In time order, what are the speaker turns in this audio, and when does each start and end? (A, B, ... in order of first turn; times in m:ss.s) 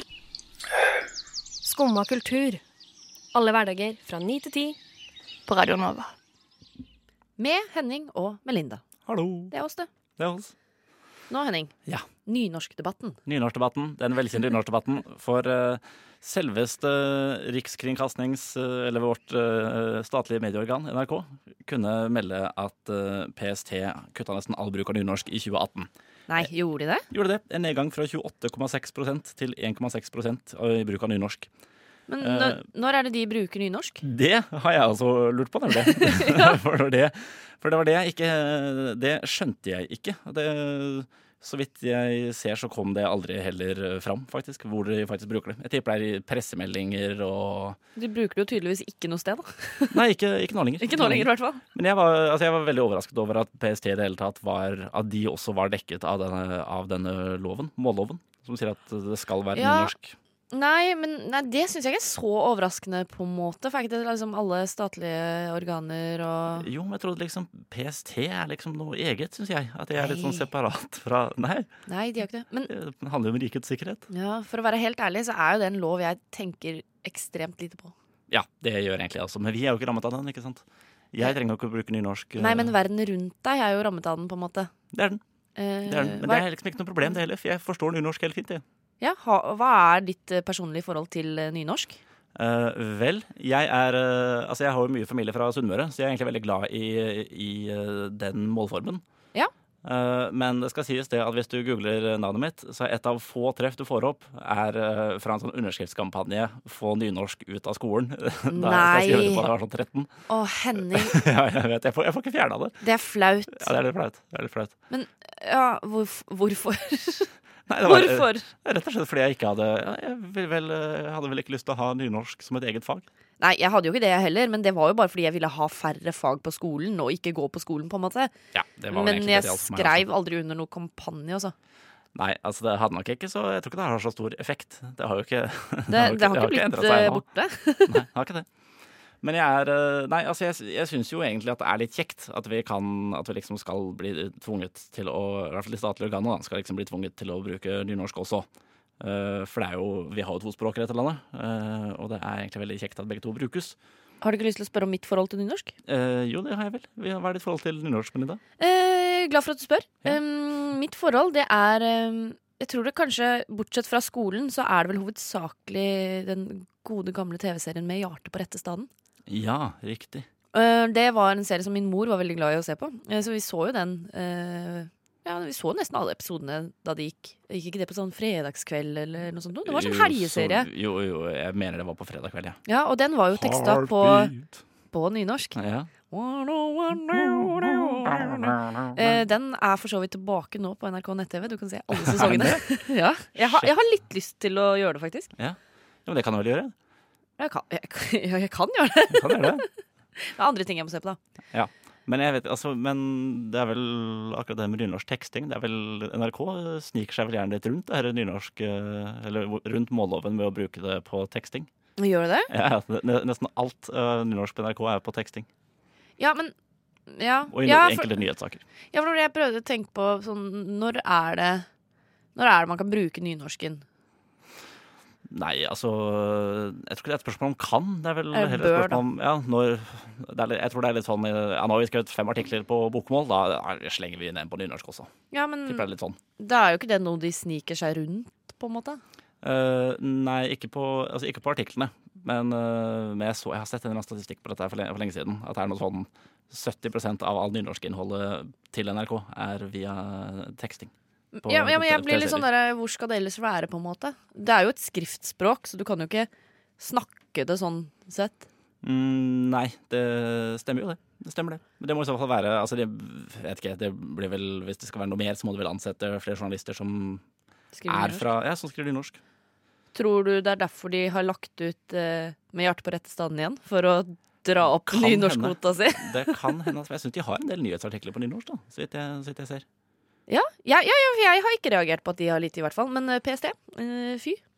0:01.6-0:02.6 A
0:03.3-0:04.8 A
0:05.5-0:06.1 A
0:07.4-0:08.8 B
0:09.0-0:09.5 C
0:09.5-0:09.9 B
0:10.2-0:10.5 C
0:11.3-0:11.7 B
0:12.2-0:13.2 B
0:13.2-0:26.5 C
0:26.3-0:27.0 B
0:27.1-0:31.5 C
0:32.1-0:34.0 B
0:32.2-0:32.6 C
0:34.0-0:47.8 C
0:35.9-0:36.6 B
0:48.0-0:50.0 B
0:49.9-1:00.2 C
0:50.8-0:51.6 B
0:59.6-0:59.9 B
1:00.5-1:06.7 B
1:06.6-1:11.7 C
1:10.0-1:10.4 B
1:11.9-1:12.7 B
1:12.7-1:14.1 C
1:14.1-1:17.9 B
1:18.3-1:22.7 C
1:22.4-1:24.7 B
1:24.9-1:25.2 C
1:25.6-1:26.4 B
1:25.8-1:28.6 C
1:29.0-1:32.0 B
1:32.3-1:39.0 C
1:39.8-1:50.1 C
1:48.5-1:49.5 B
1:50.3-1:51.2 B
1:50.8-1:52.8 C
1:52.8-1:53.7 B
1:53.5-1:54.7 C
1:54.9-1:57.3 B
1:57.7-2:03.1 C
1:57.8-1:58.5 B
2:03.4-2:08.3 B
2:08.5-2:10.1 C
2:08.9-2:11.5 B
2:12.1-2:17.2 C
2:15.9-2:18.0 B
2:17.8-2:18.5 C
2:19.2-2:28.5 C
2:29.0-2:33.8 C
2:34.2-2:35.7 B
2:35.8-2:38.4 C
2:38.6-2:48.9 B
2:49.3-2:50.3 C
2:50.5-3:00.7 B
2:59.6-3:02.6 C
3:02.6-3:04.3 B
3:03.3-3:04.6 C
3:04.9-3:05.6 B
3:05.6-3:05.9 C
3:06.1-3:15.3 B
3:07.1-3:09.2 C
3:11.9-3:12.8 C
3:13.3-3:13.7 C
3:15.4-3:16.7 C
3:17.4-3:19.6 B
3:19.1-3:19.6 C
3:20.2-3:21.2 B
3:21.5-3:31.7 C
3:32.0-3:32.5 B
3:32.5-3:35.5 C
3:36.2-3:36.5 B
3:37.1-3:38.2 B
3:37.5-3:38.6 C
3:38.9-3:41.7 B
3:42.3-3:43.8 B
3:45.3-3:55.1 C
3:48.3-3:49.0 B
3:55.3-3:55.9 B
3:55.6-3:56.2 C
3:56.4-3:59.0 B
3:59.4-4:10.9 C
4:11.3-4:18.5 B
4:11.4-4:12.5 C
4:18.8-4:27.2 C
4:27.7-4:28.3 B
4:27.9-4:29.2 C
4:29.9-4:36.5 B
4:34.6-4:39.6 C
4:40.3-4:44.4 B